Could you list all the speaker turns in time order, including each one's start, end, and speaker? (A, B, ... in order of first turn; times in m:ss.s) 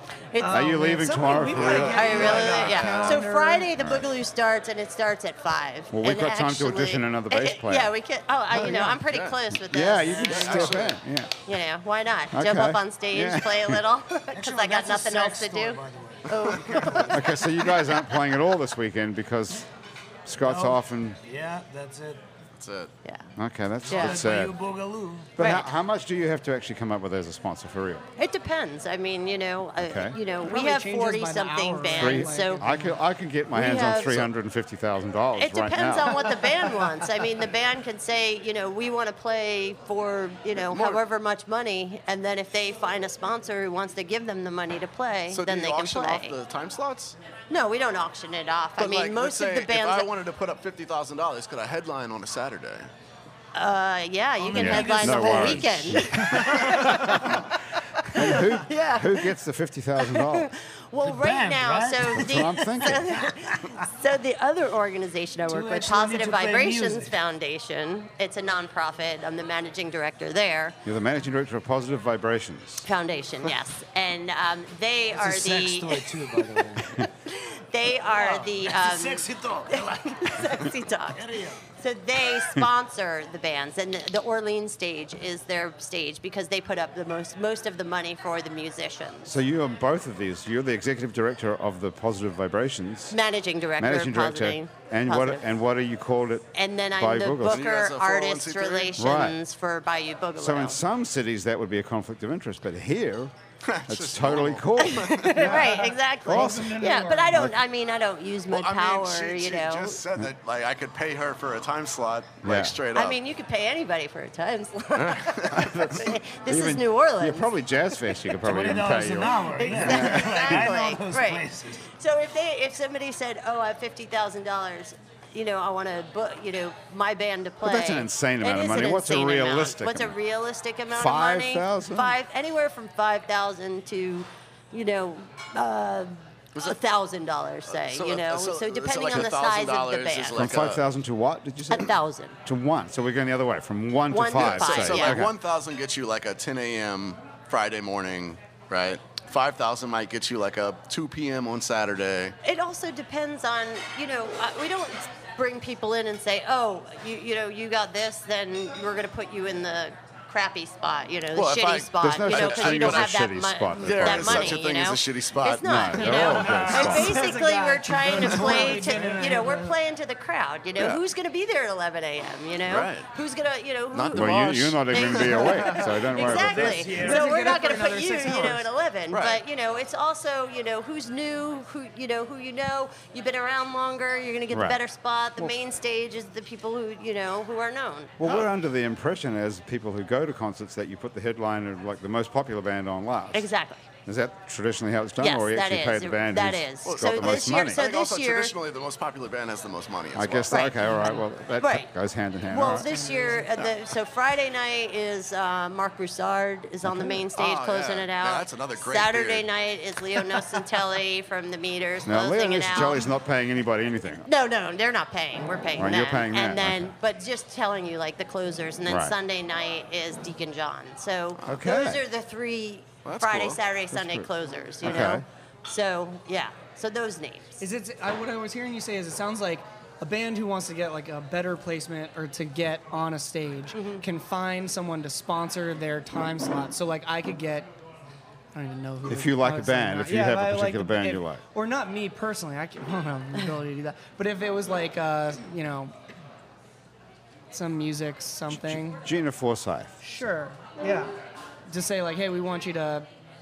0:00.3-0:00.7 A
0:00.4-0:03.7 B
0:00.4-0:02.2 C
0:01.3-0:03.2 D
0:01.6-0:10.9 A
0:05.9-0:07.9 C
0:08.5-0:09.0 C
0:09.0-0:09.4 D
0:09.7-0:11.3 C
0:10.2-0:11.0 D
0:11.4-0:17.4 A
0:12.3-0:13.8 C
0:14.3-0:17.2 E
0:17.1-0:19.7 C
0:20.2-0:21.2 C
0:20.4-0:22.2 E
0:22.6-0:22.9 D
0:23.4-0:24.6 C
0:23.9-0:24.2 A
0:23.9-0:25.3 E
0:25.4-0:28.0 C
0:25.4-0:25.7 A
0:28.2-0:32.6 A
0:29.8-0:30.2 C
0:30.4-0:33.0 B
0:32.0-0:36.4 C
0:33.5-0:34.2 A
0:33.9-0:34.3 D
0:35.4-0:46.4 A
0:40.6-0:41.0 D
0:45.3-0:47.2 D
0:47.5-0:50.1 A
0:48.8-0:52.9 D
0:53.5-0:57.4 A
0:54.4-0:57.2 E
0:54.5-0:57.5 C
0:58.0-0:59.3 A
0:58.1-1:00.5 C
1:00.0-1:10.8 A
1:01.0-1:03.7 E
1:02.1-1:03.2 C
1:05.5-1:07.1 E
1:10.8-1:12.9 C
1:12.8-1:29.3 A
1:15.1-1:16.9 E
1:18.1-1:21.7 E
1:29.2-1:33.2 C
1:33.1-1:35.4 A
1:33.8-1:37.6 C
1:36.5-1:40.8 A
1:37.4-1:39.0 D
1:39.0-1:39.4 C
1:40.4-1:43.3 C
1:43.6-1:45.3 D
1:43.9-1:47.6 C
1:44.8-1:50.0 A
1:45.4-1:47.4 B
1:48.5-1:53.2 D
1:52.4-1:52.8 C
1:52.9-1:57.5 A
1:54.9-1:55.7 D
1:55.5-2:00.7 C
1:58.4-2:01.9 E
1:59.5-2:20.5 A
2:07.6-2:10.1 C
2:10.9-2:12.2 C
2:17.7-2:20.8 D
2:20.4-2:21.9 C
2:21.7-2:22.4 A
2:22.4-2:25.3 C
2:24.1-2:25.2 A
2:24.3-2:32.3 D
2:32.4-3:08.2 A
2:41.3-2:43.1 D
2:42.0-2:44.6 C
2:43.8-2:45.8 D
2:45.6-2:47.2 C
2:45.9-2:49.7 B
2:48.0-2:49.7 E
2:52.6-2:53.1 D
2:53.9-2:55.4 D
2:54.1-2:56.9 C
2:55.5-2:56.0 B
2:56.2-2:57.6 E
2:56.9-2:58.7 B
2:59.1-2:59.4 D
3:04.5-3:04.8 C
3:08.2-3:13.5 C
3:08.2-3:08.5 D
3:13.3-3:13.9 A
3:14.0-3:17.8 C
3:15.2-3:18.5 A
3:16.8-3:20.7 D
3:20.1-3:22.9 C
3:20.5-3:21.9 A
3:22.4-3:33.1 A
3:22.6-3:23.5 B
3:26.8-3:27.2 C
3:27.3-3:29.5 D
3:32.0-3:34.3 C
3:34.2-3:47.6 A
3:35.8-3:36.9 C
3:38.8-3:39.1 C
3:41.4-3:41.6 D
3:41.5-3:42.0 C
3:43.0-3:43.6 D
3:43.9-3:44.3 C
3:44.8-3:45.2 C
3:47.6-3:57.7 B
3:53.7-3:54.0 A
3:58.5-4:05.9 B
3:59.0-4:01.4 C
4:07.5-4:09.0 B
4:08.5-4:09.9 C
4:10.0-4:11.1 B
4:11.7-4:13.1 B